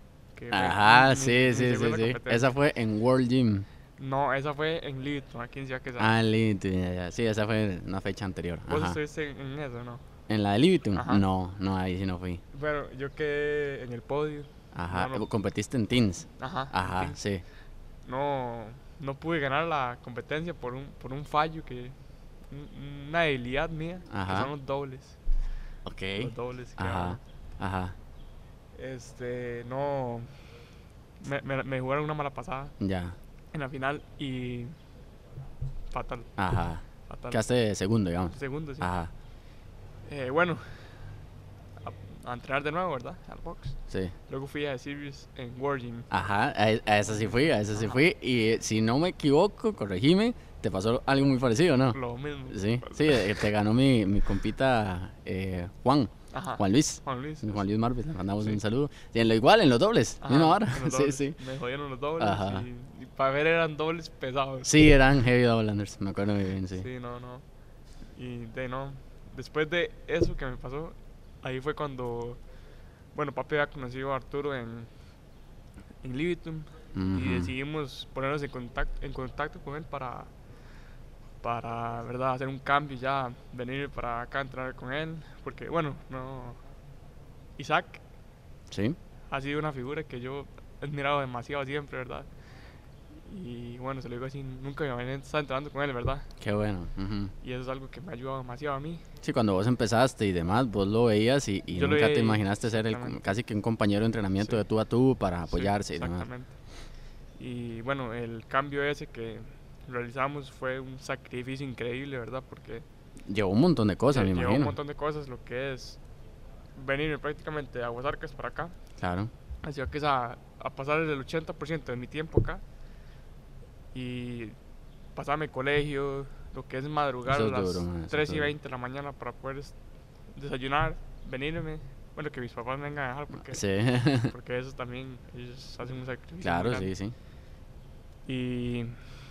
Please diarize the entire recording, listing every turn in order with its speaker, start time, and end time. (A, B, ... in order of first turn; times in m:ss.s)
0:00.4-0:02.6 A
0:00.5-0:03.7 B
0:04.0-0:06.1 A
0:06.0-0:09.0 B
0:08.7-0:10.0 A
0:10.3-0:12.4 B
0:10.9-0:11.2 A
0:12.5-0:15.3 A
0:14.7-0:17.4 B
0:16.4-0:17.2 A
0:18.0-0:22.0 A
0:22.5-0:25.2 A
0:24.1-0:24.5 B
0:25.9-0:28.0 B
0:26.2-0:27.2 A
0:28.7-0:30.4 A
0:31.2-0:32.8 A
0:32.8-0:33.2 B
0:33.5-0:34.8 A
0:35.9-0:36.3 A
0:36.4-0:39.1 B
0:37.0-0:37.4 A
0:38.3-0:38.9 A
0:40.1-0:41.2 A
0:41.8-0:46.1 A
0:43.9-0:44.2 B
0:46.1-1:01.4 B
0:47.1-0:48.0 A
0:51.9-0:53.4 A
0:56.3-0:57.7 A
1:00.2-1:04.8 A
1:02.2-1:02.7 B
1:04.6-1:06.9 B
1:06.7-1:07.4 A
1:08.1-1:12.4 A
1:13.1-1:14.9 A
1:16.0-1:20.3 A
1:17.0-1:17.5 B
1:21.4-1:26.6 A
1:27.6-1:28.0 A
1:28.7-1:29.0 B
1:29.3-1:32.3 A
1:33.1-1:36.3 A
1:36.4-1:37.3 B
1:37.4-1:39.0 A
1:39.2-1:46.3 B
1:41.7-1:43.3 A
1:44.4-1:44.6 A
1:45.5-1:46.5 A
1:47.4-1:52.9 A
1:53.3-1:54.8 B
1:54.1-1:56.0 A
1:56.8-1:58.8 A
1:59.0-1:59.3 B
1:59.6-2:02.6 A
2:03.9-2:04.6 A
2:05.1-2:09.8 A
2:07.3-2:08.5 B
2:10.3-2:13.6 A
2:13.4-2:14.3 B
2:14.2-2:16.9 A
2:16.4-2:17.2 B
2:18.3-2:19.0 A